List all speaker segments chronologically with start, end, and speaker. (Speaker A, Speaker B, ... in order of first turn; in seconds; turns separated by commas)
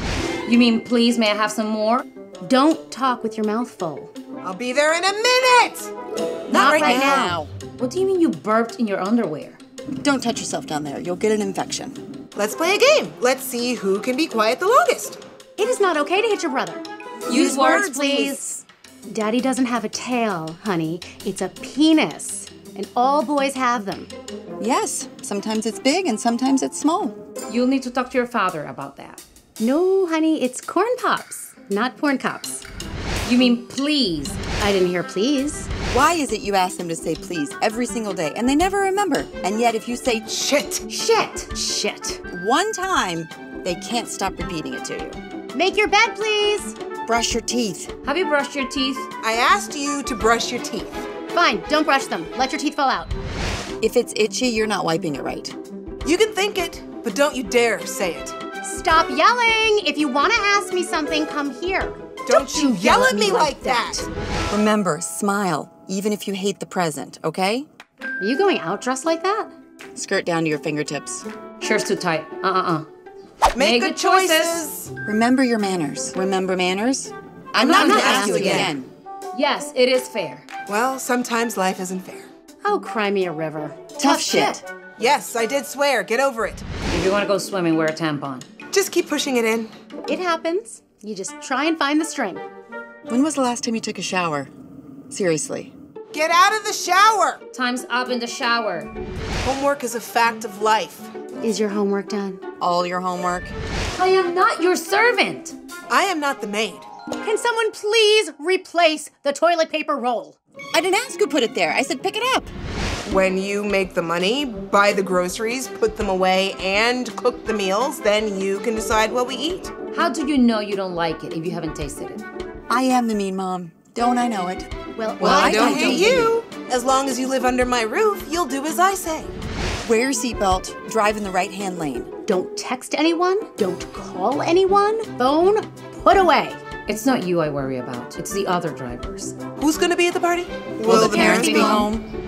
Speaker A: 0.5-2.1, Speaker B: 2.4-4.1, Speaker C: 4.4-5.9, Speaker B: 6.5-7.4, Speaker D: 6.5-7.5, Speaker C: 6.5-7.1, Speaker A: 6.6-9.6, Speaker D: 10.0-12.0, Speaker C: 12.4-15.2, Speaker B: 15.6-16.9, Speaker A: 17.3-18.2, Speaker C: 17.3-18.5, Speaker B: 17.7-24.1, Speaker D: 24.6-27.2, Speaker A: 27.5-29.2, Speaker B: 29.6-32.6, Speaker A: 33.2-34.4, Speaker B: 34.5-35.7, Speaker D: 35.9-40.3, Speaker C: 40.3-40.8, Speaker A: 40.9-41.5, Speaker B: 41.5-42.2, Speaker D: 42.3-45.2, Speaker B: 45.5-46.8, Speaker D: 47.0-47.9, Speaker A: 48.0-49.1, Speaker C: 49.2-51.0, Speaker B: 51.3-53.1, Speaker D: 53.8-55.5, Speaker C: 56.0-58.4, Speaker B: 58.6-64.1, Speaker C: 62.2-64.1, Speaker D: 64.5-67.7, Speaker B: 68.2-69.5, Speaker D: 70.0-71.3, Speaker A: 71.6-72.9, Speaker C: 73.5-74.9, Speaker A: 73.6-74.6, Speaker D: 75.0-78.9, Speaker A: 77.5-78.7, Speaker C: 77.6-78.7, Speaker B: 77.8-78.7, Speaker A: 79.3-80.5, Speaker C: 80.7-82.3, Speaker B: 82.6-84.6, Speaker D: 84.0-84.6, Speaker C: 85.0-86.7, Speaker A: 86.9-88.5, Speaker C: 88.7-89.7, Speaker B: 90.1-92.5, Speaker D: 93.1-94.5, Speaker D: 95.1-95.7, Speaker C: 96.1-97.4, Speaker A: 97.5-98.9, Speaker C: 99.4-101.1, Speaker B: 101.4-102.4, Speaker D: 102.6-103.5, Speaker A: 104.0-105.5, Speaker C: 105.9-106.9, Speaker B: 107.2-110.4, Speaker D: 110.7-112.5, Speaker C: 113.0-119.7, Speaker A: 119.9-122.2, Speaker D: 122.7-126.3, Speaker B: 125.0-126.4, Speaker C: 125.2-129.3, Speaker D: 129.8-132.1, Speaker B: 132.3-136.6, Speaker A: 136.9-139.4, Speaker C: 139.6-141.9, Speaker D: 140.8-142.1, Speaker B: 140.9-141.9